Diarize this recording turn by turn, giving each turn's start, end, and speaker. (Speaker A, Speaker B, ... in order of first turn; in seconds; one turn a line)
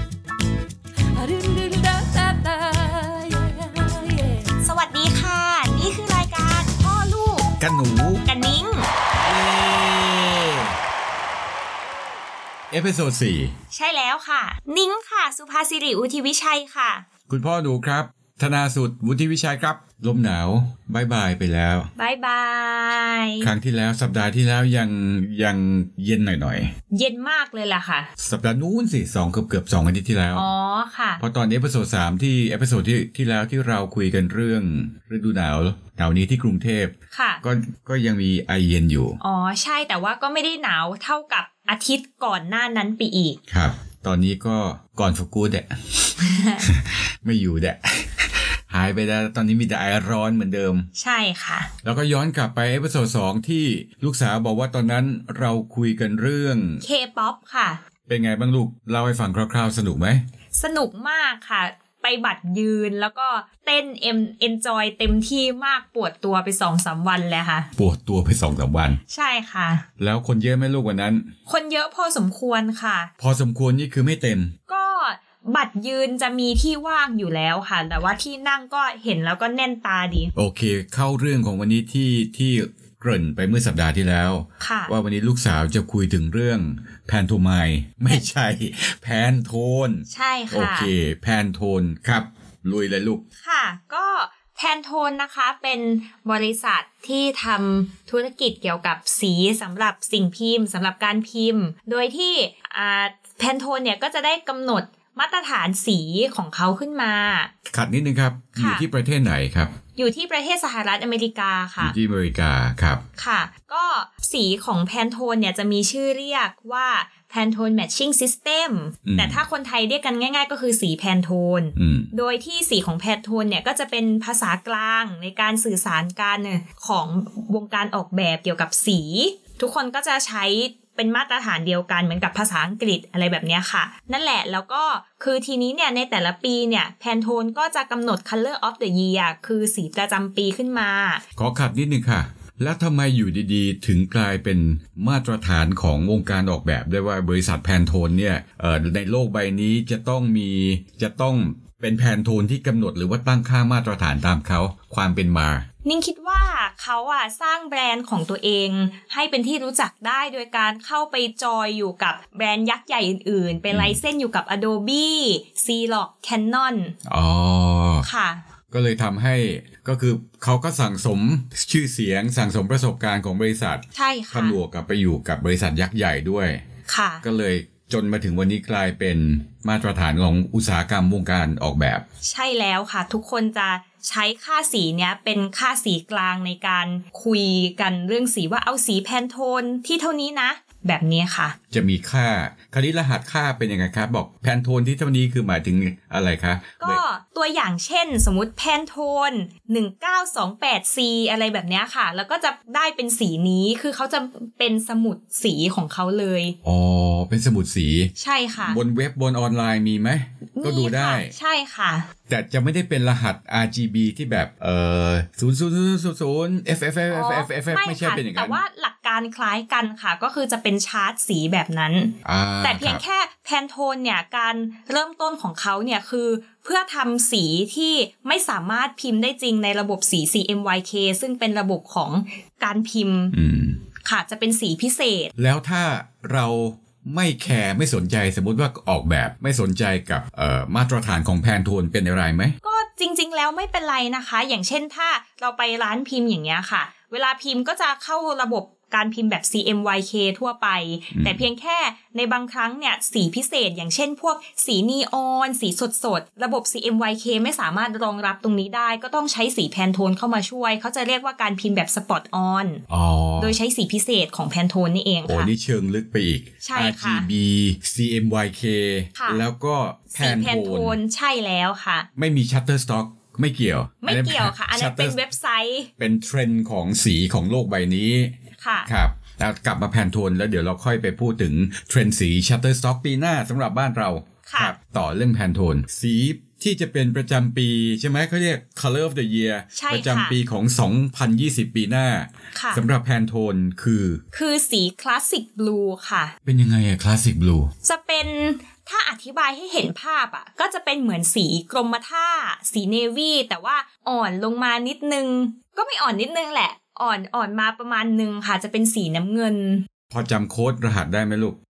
Speaker A: 1.1-4.5
Speaker B: 4.6-7.5
Speaker C: 7.6-8.2
Speaker B: 8.2-8.9
Speaker C: 9.2-10.8
Speaker C: 12.7-13.5
Speaker B: 13.7-17.0
Speaker C: 17.3-21.9
Speaker B: 22.0-23.5
Speaker C: 23.4-26.7
Speaker B: 26.9-28.1
Speaker C: 28.2-30.5
Speaker B: 30.3-31.2
Speaker C: 31.2-39.2
Speaker B: 37.1-37.4
Speaker B: 39.2-43.4
Speaker C: 43.5-46.0
Speaker B: 46.2-46.7
Speaker C: 46.6-50.9
Speaker B: 51.0-51.7
Speaker C: 51.8-56.8
Speaker B: 56.8-57.8
Speaker C: 58.1-60.2
Speaker B: 60.5-67.7
Speaker C: 67.8-69.0
Speaker B: 69.1-69.8
Speaker C: 70.0-71.3
Speaker B: 71.5-73.1
Speaker C: 73.2-74.5
Speaker B: 74.7-80.3
Speaker C: 80.3-93.2
Speaker B: 84.6-84.9
Speaker B: 90.1-90.9
Speaker B: 93.4-107.5
Speaker C: 107.7-109.7
Speaker B: 108.5-108.8
Speaker B: 110.0-111.9
Speaker C: 111.8-113.0
Speaker B: 113.2-141.2
Speaker C: 119.0-119.4
Speaker C: 121.8-122.1
Speaker C: 141.4-155.6
Speaker B: 155.8-166.9
Speaker C: 163.7-164.0
Speaker C: 167.1-168.1
Speaker B: 168.0-168.4
Speaker C: 168.7-176.6
Speaker B: 173.9-174.6
Speaker B: 176.8-177.2
Speaker C: 177.2-182.0
Speaker B: 182.2-191.6
Speaker C: 191.7-197.0
Speaker B: 196.8-206.6
Speaker C: 206.6-211.3
Speaker B: 208.2-208.8
Speaker B: 210.5-212.1
Speaker C: 212.3-218.6
Speaker B: 217.1-233.3
Speaker C: 222.2-223.0
Speaker C: 233.3-233.8
Speaker B: 234.0-235.3
Speaker C: 235.4-242.6
Speaker B: 242.6-262.8
Speaker C: 251.1-251.5
Speaker C: 262.9-263.6
Speaker B: 263.4-265.5
Speaker C: 265.2-271.0
Speaker B: 266.6-267.3
Speaker B: 269.1-269.4
Speaker B: 270.1-272.1
Speaker C: 272.1-275.2
Speaker B: 274.0-275.9
Speaker C: 276.0-278.3
Speaker B: 278.6-278.9
Speaker C: 278.9-294.2
Speaker B: 284.4-284.7
Speaker B: 289.7-290.4
Speaker B: 292.5-292.8
Speaker B: 294.3-296.3
Speaker C: 296.4-297.7
Speaker B: 297.8-309.9
Speaker C: 310.1-311.6